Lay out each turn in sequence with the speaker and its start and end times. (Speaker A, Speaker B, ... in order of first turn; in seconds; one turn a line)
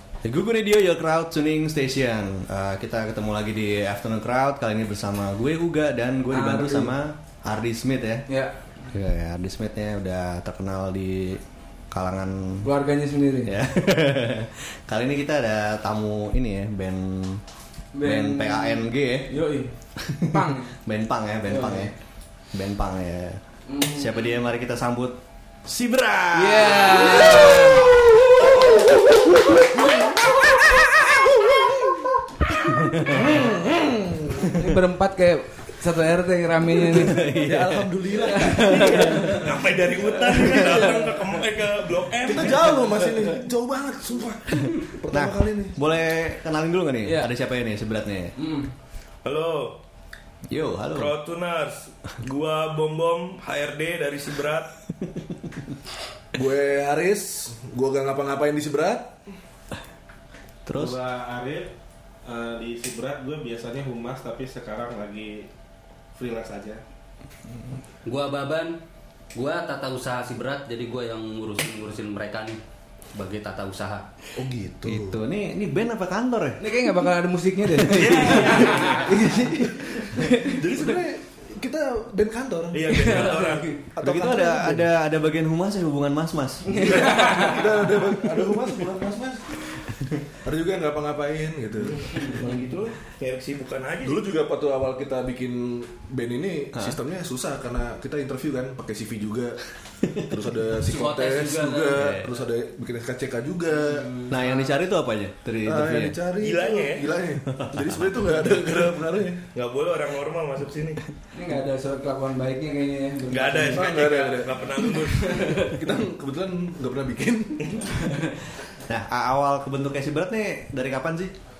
Speaker A: 0.2-8.2
Speaker B: 6.3-6.9
Speaker A: 8.9-12.7
Speaker B: 12.6-13.5
Speaker A: 13.4-17.4
Speaker B: 17.9-19.7
Speaker A: 18.0-19.3
Speaker A: 20.0-21.9
Speaker B: 20.2-20.7
Speaker B: 21.5-21.9
Speaker A: 22.5-29.4
Speaker B: 23.7-24.3
Speaker B: 26.3-27.9
Speaker A: 30.4-31.6
Speaker A: 32.6-33.5
Speaker C: 33.1-34.5
Speaker B: 34.5-37.2
Speaker A: 36.8-37.9
Speaker C: 37.4-39.5
Speaker B: 38.5-39.4
Speaker D: 38.6-42.8
Speaker B: 40.2-41.1
Speaker C: 42.2-45.8
Speaker A: 45.1-48.3
Speaker B: 47.0-47.3
Speaker B: 48.4-48.7
Speaker D: 49.2-49.8
Speaker A: 50.5-51.1
Speaker D: 50.9-54.7
Speaker A: 55.1-55.6
Speaker C: 56.3-59.2
Speaker A: 60.6-61.0
Speaker E: 60.7-61.7
Speaker E: 62.2-65.5
Speaker E: 66.1-66.8
Speaker F: 68.0-68.8
Speaker F: 69.3-72.6
Speaker F: 73.1-74.0
Speaker C: 74.3-75.2
Speaker A: 74.8-76.6
Speaker B: 76.6-80.6
Speaker D: 77.9-79.0
Speaker C: 80.0-84.9
Speaker D: 82.7-83.7
Speaker B: 83.2-83.7
Speaker A: 84.0-87.0
Speaker B: 86.7-87.6
Speaker C: 86.8-92.6
Speaker D: 92.2-94.3
Speaker C: 94.0-104.1
Speaker F: 100.9-102.0
Speaker A: 102.0-102.3
Speaker A: 104.3-106.2
Speaker C: 105.6-109.4
Speaker D: 106.4-107.1
Speaker A: 107.5-108.5
Speaker D: 109.5-111.0
Speaker B: 111.3-113.8
Speaker D: 113.3-115.5
Speaker C: 113.7-114.7
Speaker B: 115.3-115.6
Speaker C: 115.6-117.8
Speaker B: 118.0-118.3
Speaker A: 118.8-121.3